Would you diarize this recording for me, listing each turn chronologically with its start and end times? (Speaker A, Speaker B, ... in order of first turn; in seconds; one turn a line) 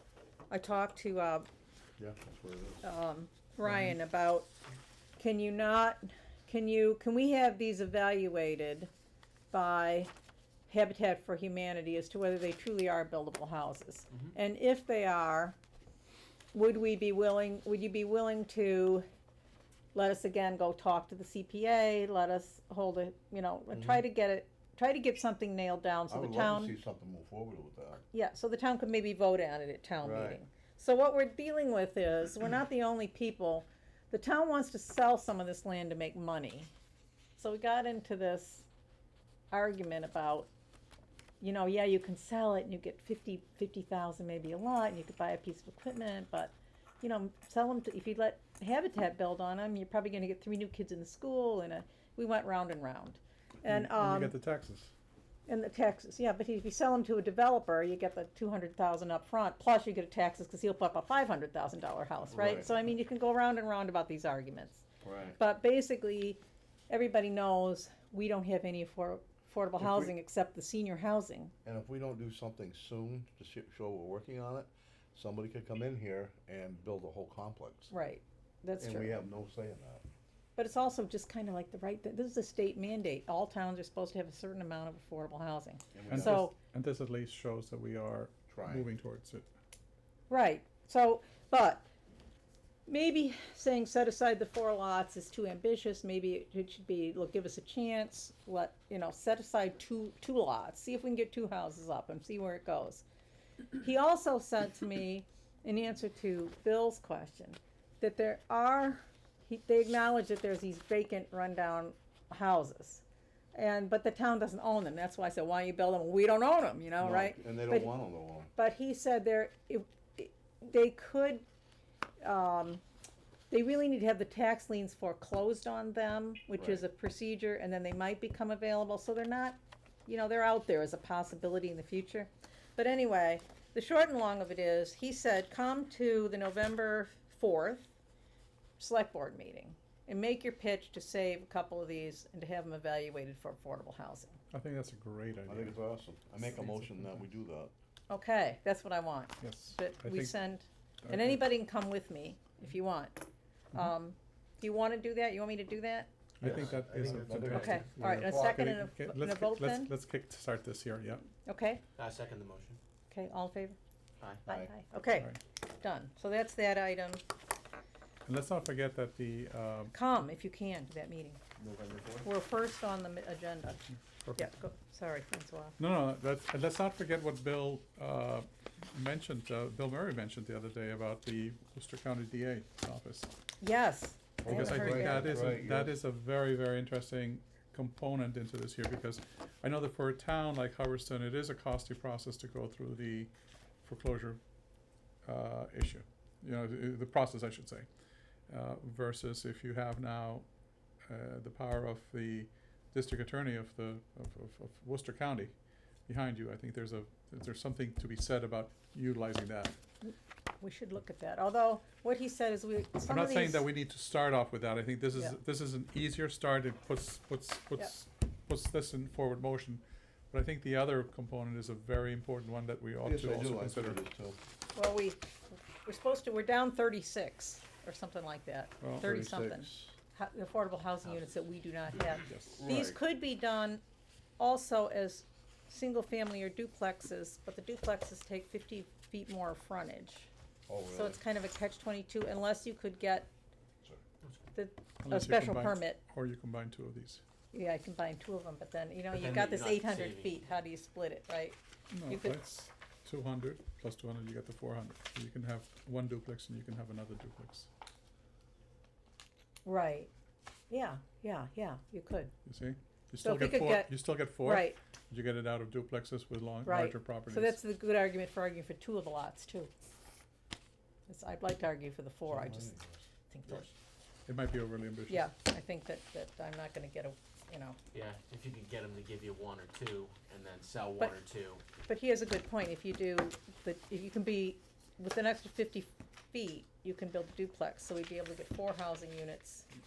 Speaker A: 0.5-1.5
Speaker B: 2.0-2.8
Speaker A: 2.8-4.5
Speaker A: 5.2-8.9
Speaker A: 9.5-10.1
Speaker A: 10.7-15.6
Speaker A: 16.5-19.0
Speaker A: 19.9-26.7
Speaker B: 23.7-24.0
Speaker B: 26.1-28.0
Speaker A: 28.1-36.7
Speaker B: 30.0-30.4
Speaker A: 37.4-38.7
Speaker A: 39.5-40.5
Speaker A: 41.4-54.3
Speaker C: 53.6-54.9
Speaker A: 55.5-64.8
Speaker B: 62.3-62.8
Speaker B: 65.0-65.4
Speaker A: 65.4-71.5
Speaker B: 69.8-70.1
Speaker B: 71.6-77.9
Speaker A: 77.9-79.2
Speaker B: 78.8-80.0
Speaker A: 80.6-86.5
Speaker B: 85.9-86.5
Speaker C: 86.1-89.5
Speaker B: 88.5-88.8
Speaker A: 90.3-91.8
Speaker A: 92.9-103.0
Speaker A: 103.8-113.0
Speaker A: 113.5-117.9
Speaker B: 117.0-118.5
Speaker A: 118.5-121.4
Speaker A: 122.2-122.8
Speaker A: 123.5-137.9
Speaker B: 126.6-126.8
Speaker A: 138.8-144.4
Speaker C: 144.5-145.8
Speaker B: 145.5-147.7
Speaker C: 146.6-147.2
Speaker A: 148.1-153.2
Speaker C: 149.4-150.4
Speaker C: 151.0-151.4
Speaker A: 153.7-156.1
Speaker C: 156.4-161.2
Speaker B: 156.4-158.6
Speaker D: 156.4-157.8
Speaker A: 157.5-159.9
Speaker A: 161.4-161.8
Speaker D: 162.0-162.8
Speaker A: 163.1-163.8
Speaker B: 164.4-164.7
Speaker A: 164.4-167.2
Speaker C: 168.2-169.9
Speaker A: 169.9-171.4
Speaker A: 172.2-173.8
Speaker C: 174.2-174.5
Speaker A: 174.3-175.8
Speaker C: 175.8-183.3
Speaker A: 183.6-185.6
Speaker B: 184.4-185.9
Speaker C: 184.5-194.4
Speaker C: 195.2-197.9
Speaker C: 198.5-200.4
Speaker C: 201.1-205.5
Speaker C: 206.1-209.7
Speaker A: 210.0-213.7
Speaker C: 213.1-224.0
Speaker B: 223.0-224.4
Speaker A: 224.7-225.2
Speaker A: 225.8-233.8
Speaker C: 228.8-229.1
Speaker B: 229.0-229.9
Speaker C: 232.3-232.5
Speaker B: 232.6-233.0
Speaker A: 234.4-240.3
Speaker B: 240.7-241.2
Speaker A: 240.9-243.3
Speaker A: 244.5-246.0
Speaker C: 245.0-247.2
Speaker A: 247.5-252.4
Speaker D: 249.1-250.3
Speaker C: 251.9-257.7
Speaker A: 259.6-260.1
Speaker A: 260.7-262.3
Speaker C: 262.4-267.6
Speaker A: 263.2-264.8
Speaker A: 266.6-269.7
Speaker A: 271.1-272.7
Speaker B: 272.3-273.0
Speaker A: 273.3-273.7
Speaker C: 274.2-275.2
Speaker A: 275.1-277.8
Speaker D: 277.9-281.6
Speaker A: 281.8-289.7